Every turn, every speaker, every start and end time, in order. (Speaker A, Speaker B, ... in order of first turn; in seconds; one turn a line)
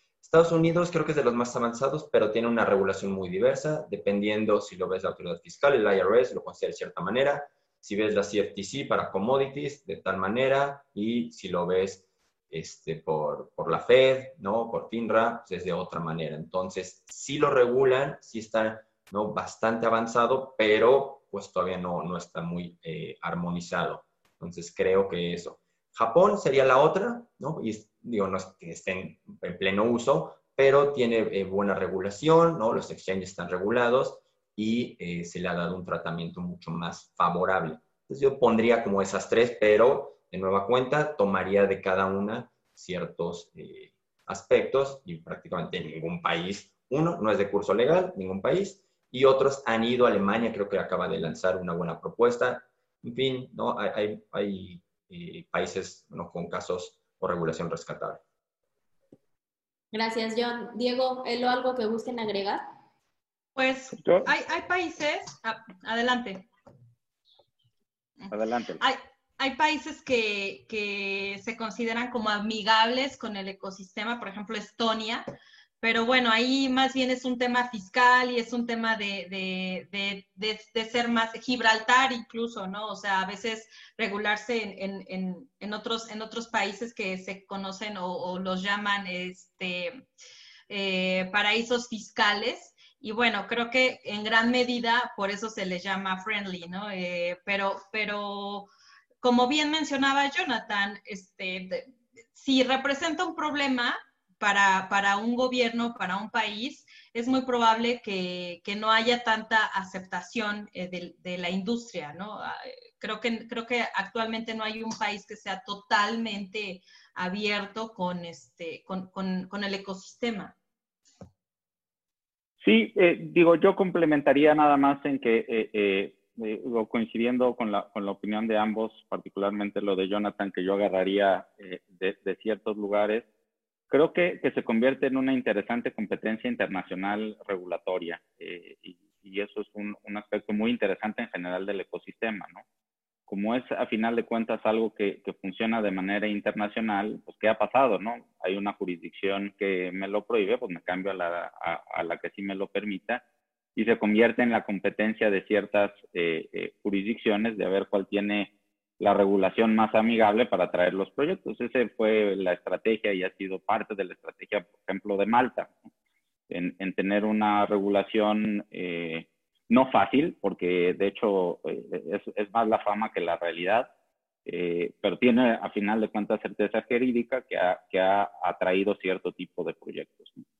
Speaker A: 0.2-58.2
Speaker B: 59.9-62.6
Speaker C: 63.5-66.5
Speaker D: 64.0-64.3
Speaker C: 68.2-75.2
Speaker D: 68.3-68.8
Speaker C: 75.8-90.0
Speaker C: 90.7-98.7
Speaker C: 99.2-120.5
Speaker D: 122.6-133.2
Speaker D: 133.9-142.6
Speaker D: 143.3-153.2
Speaker D: 153.8-165.7
Speaker D: 166.5-173.9
Speaker D: 174.4-180.4